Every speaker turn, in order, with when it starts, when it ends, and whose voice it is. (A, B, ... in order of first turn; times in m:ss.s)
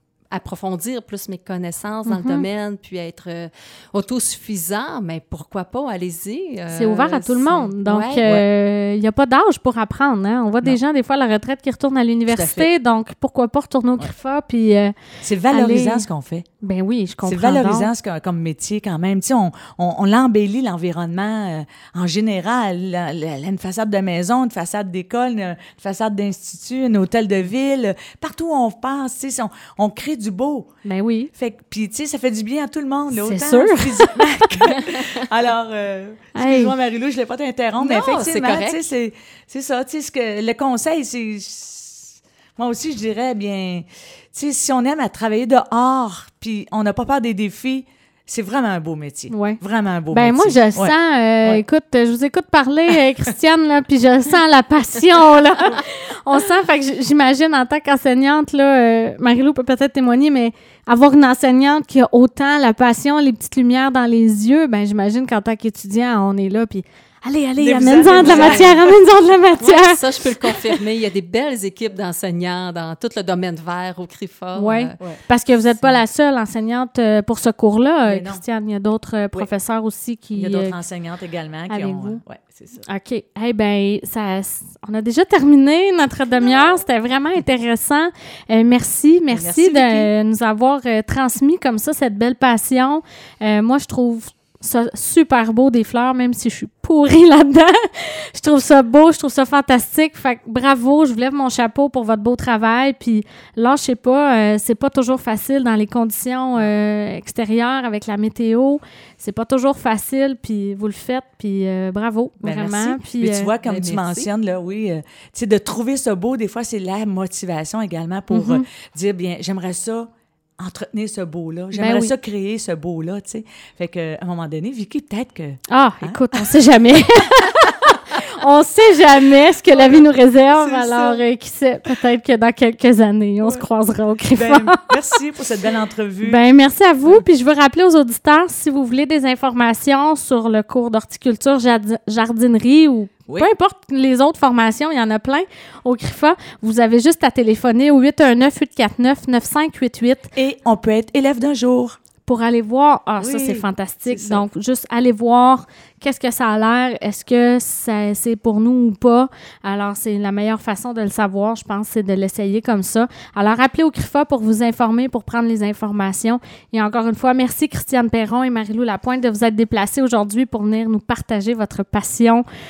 0:00.3-0:08.3 A
0:02.1-0:02.4 B
0:06.7-0:15.0 B
0:12.3-0:12.7 C
0:15.2-0:16.5 C
0:15.5-0:16.0 B
0:16.6-0:17.9 B
0:17.2-0:30.7 C
0:30.8-0:31.3 B
0:31.4-0:51.6 C
0:33.1-0:34.4 B
0:36.4-0:36.7 B
0:37.8-0:38.8 A
0:49.3-0:49.6 B
0:50.1-1:10.5 B
1:07.6-1:08.9 C
1:08.2-1:08.9 A
1:09.6-1:15.0 A
1:14.6-1:20.8 B
1:18.1-1:18.4 C
1:20.4-1:22.8 C
1:21.7-1:22.2 B
1:22.9-1:53.5 B
1:29.3-1:30.1 C
1:52.4-2:06.6 C
1:53.6-1:54.3 A
1:58.3-1:58.6 B
2:01.7-2:02.1 B
2:05.7-2:15.0 B
2:07.4-2:07.7 C
2:09.7-2:11.2 C
2:14.4-2:16.4 C
2:16.2-2:30.3 B
2:30.4-2:32.0 C
2:32.2-2:52.4 B
2:33.2-2:34.4 C